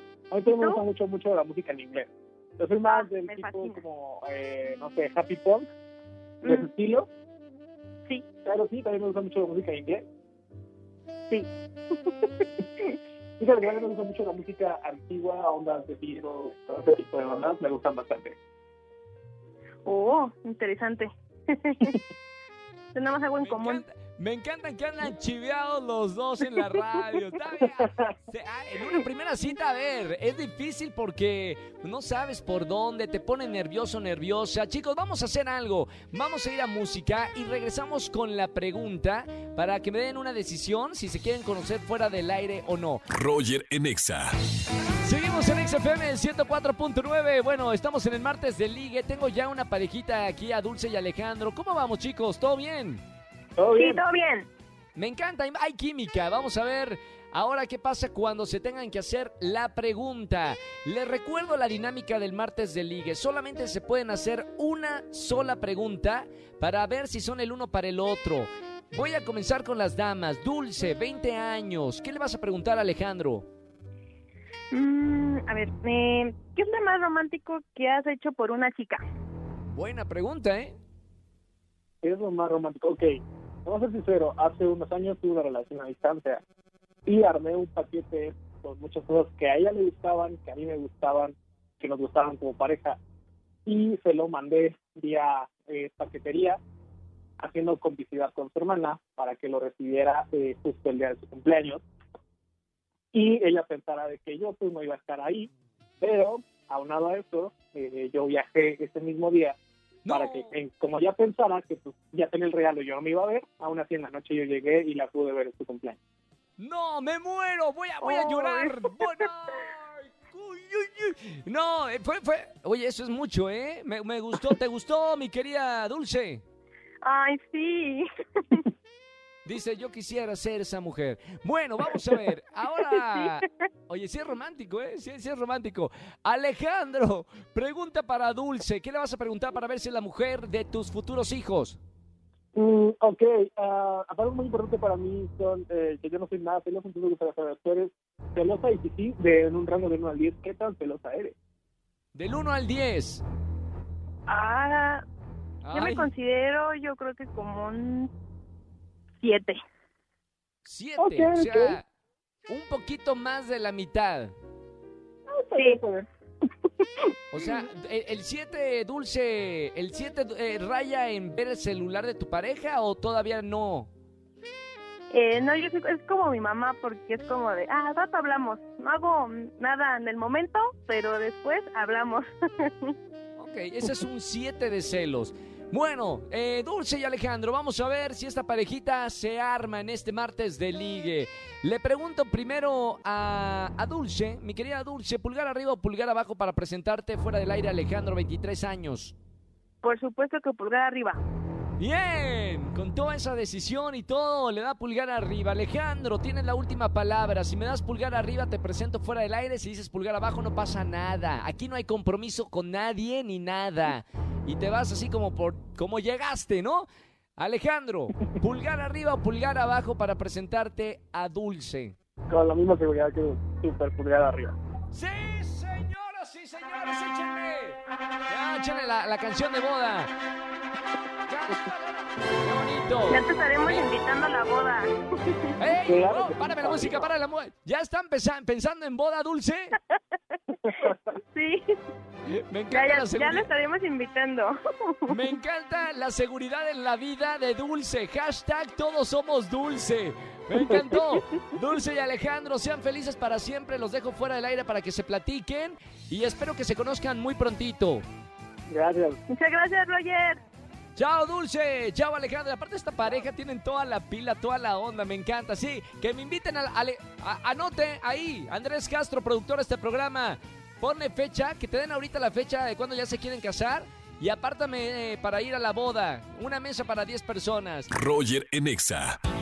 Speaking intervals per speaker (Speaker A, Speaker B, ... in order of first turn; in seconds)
Speaker A: 0.3-5.7, 6.4-7.1, 8.4-10.1, 13.4-18.4, 53.6-54.0, 82.0-86.4, 87.0-93.0, 93.7-96.6, 97.4-101.8, 103.1-105.5, 106.0-109.6, 110.1-116.0, 142.5-151.3, 161.0-161.8, 165.3-166.1, 222.3-224.5, 235.8-237.1, 240.6-240.9, 258.7-259.2
Speaker B: 0.5-0.8, 2.9-3.8, 6.4-6.7, 12.0-12.9, 19.8-22.0, 22.9-23.8, 53.7-54.5, 74.7-79.0, 118.0-119.0, 127.0-128.7, 154.3-155.0, 155.7-158.1, 159.2-159.6, 165.6-165.8, 175.1-182.9, 199.8-201.2, 233.1-235.5, 241.3-241.7, 242.7-245.2, 259.3-260.4
Speaker C: 23.4-43.0, 45.0-53.0, 55.0-73.5, 79.7-80.8, 110.0-110.5, 116.6-126.4, 129.4-141.8, 152.1-153.2, 155.6-156.1, 160.6-161.8, 162.5-164.3, 167.3-173.9, 183.4-199.1, 201.8-221.9, 224.9-230.1, 231.3-233.9, 235.6-239.8, 242.3-243.5, 245.1-258.0, 260.9-277.9
Speaker D: 43.1-44.3, 277.9-279.2